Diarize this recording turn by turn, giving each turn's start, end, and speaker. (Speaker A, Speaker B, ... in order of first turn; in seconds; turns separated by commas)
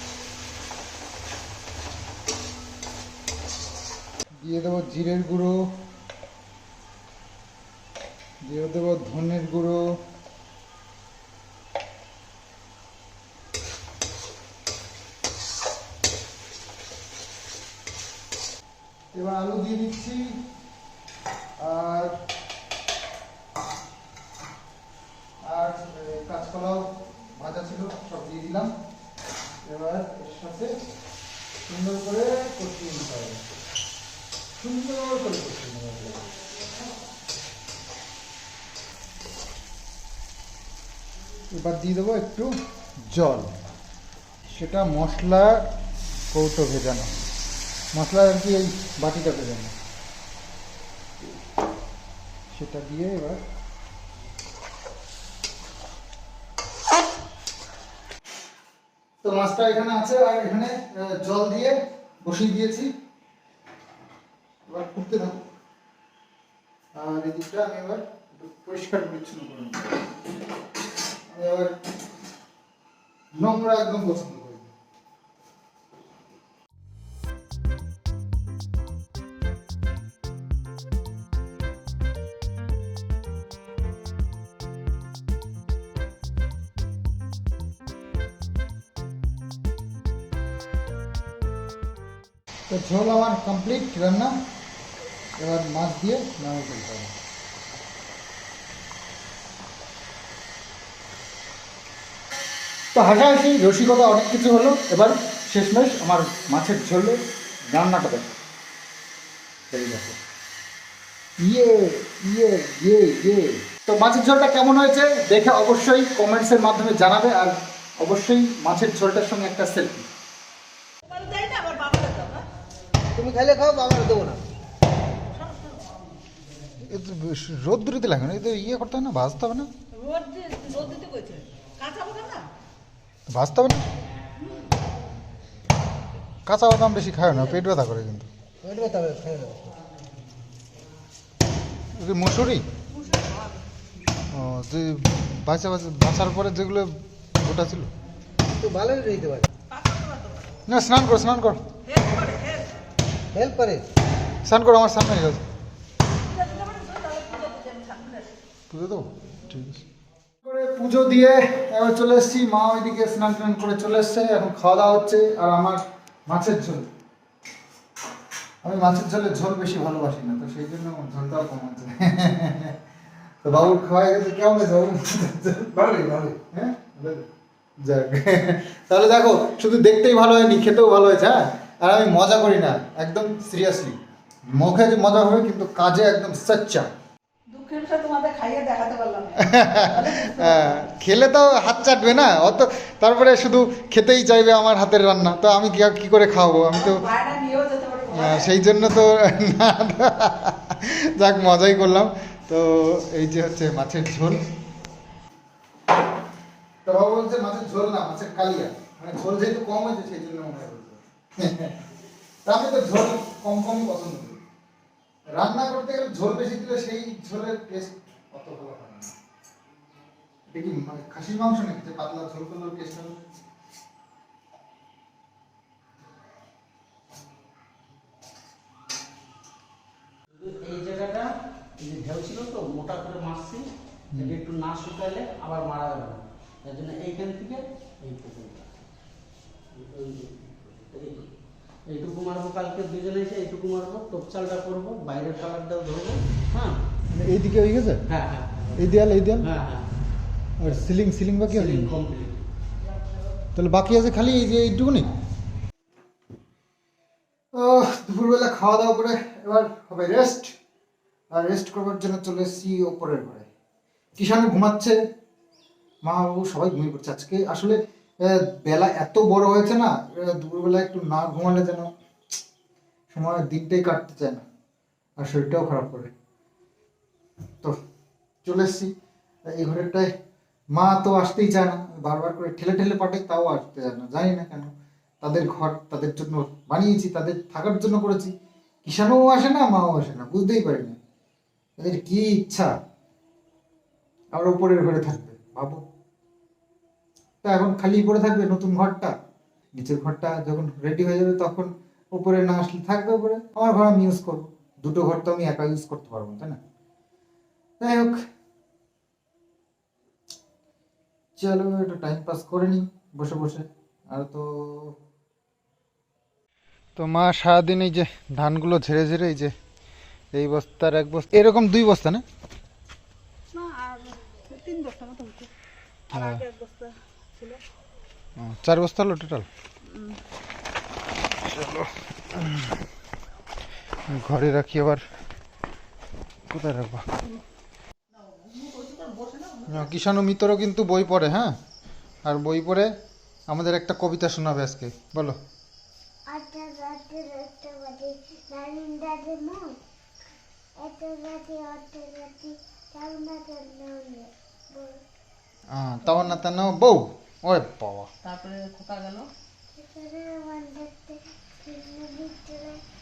Speaker A: 4.4-5.6, Speaker A: 8.4-9.8, Speaker A: 19.1-20.4, Speaker A: 21.6-22.1, Speaker A: 25.4-28.7, Speaker A: 29.7-30.7, Speaker A: 31.7-33.4, Speaker A: 34.6-36.3, Speaker A: 41.5-42.5, Speaker A: 43.1-43.5, Speaker A: 44.5-45.7, Speaker A: 46.3-47.1, Speaker A: 47.9-49.7, Speaker A: 52.5-53.4, Speaker A: 59.2-62.9, Speaker A: 64.7-65.4, Speaker A: 66.9-70.0, Speaker A: 71.3-71.7, Speaker A: 73.3-74.7, Speaker A: 92.7-94.4, Speaker A: 95.4-97.1, Speaker A: 102.9-108.4, Speaker A: 109.7-110.2, Speaker A: 111.4-120.1, Speaker B: 121.0-122.4, Speaker C: 123.1-124.4, Speaker B: 125.3-126.0, Speaker A: 126.8-129.7, Speaker B: 129.9-132.5, Speaker A: 133.3-133.8, Speaker B: 134.4-134.7, Speaker A: 136.5-138.3, Speaker C: 138.6-139.8, Speaker A: 141.9-142.6, Speaker B: 142.9-143.6, Speaker A: 144.3-147.9, Speaker C: 148.6-149.5, Speaker B: 149.7-150.5, Speaker A: 150.7-151.6, Speaker B: 151.8-152.7, Speaker C: 153.3-153.8, Speaker A: 154.4-155.4, Speaker B: 156.2-158.3, Speaker A: 158.7-159.8, Speaker A: 160.4-166.9, Speaker A: 168.6-172.8, Speaker A: 173.4-175.7, Speaker C: 175.7-176.4, Speaker A: 176.5-177.3, Speaker A: 177.8-184.0, Speaker A: 184.5-186.9, Speaker B: 187.5-190.8, Speaker A: 189.4-197.0, Speaker B: 196.7-198.5, Speaker A: 198.1-204.5, Speaker A: 206.8-211.8, Speaker A: 212.4-214.4, Speaker A: 215.3-219.1, Speaker A: 220.5-223.1, Speaker D: 230.3-233.6, Speaker D: 234.2-238.7, Speaker D: 239.7-241.3, Speaker D: 241.9-246.8, Speaker A: 247.1-248.0, Speaker D: 248.1-248.8, Speaker A: 248.8-249.5, Speaker D: 249.4-249.9, Speaker A: 250.6-251.9, Speaker D: 251.5-252.4, Speaker A: 253.6-255.1, Speaker A: 257.5-260.5, Speaker A: 261.3-263.5, Speaker A: 264.2-265.0, Speaker A: 266.0-271.9, Speaker A: 273.1-274.4, Speaker A: 275.2-276.1, Speaker A: 278.4-278.9, Speaker A: 279.5-280.1, Speaker A: 280.7-288.3, Speaker A: 288.8-291.0, Speaker A: 291.8-292.7, Speaker A: 294.3-295.8, Speaker A: 297.4-299.1, Speaker A: 299.8-306.6, Speaker A: 307.8-308.2, Speaker A: 311.4-314.9, Speaker A: 316.9-319.5, Speaker A: 320.3-322.2, Speaker B: 323.5-325.5, Speaker B: 326.1-327.6, Speaker A: 326.1-326.4, Speaker A: 328.4-329.5, Speaker B: 329.8-330.2, Speaker A: 331.4-332.8, Speaker A: 334.1-335.0, Speaker A: 336.5-337.1, Speaker B: 338.1-339.9, Speaker A: 339.7-341.6, Speaker A: 342.2-342.9, Speaker A: 343.5-345.4, Speaker E: 346.3-349.8, Speaker E: 350.8-355.0, Speaker A: 355.7-358.1, Speaker B: 358.2-359.3, Speaker E: 359.7-362.8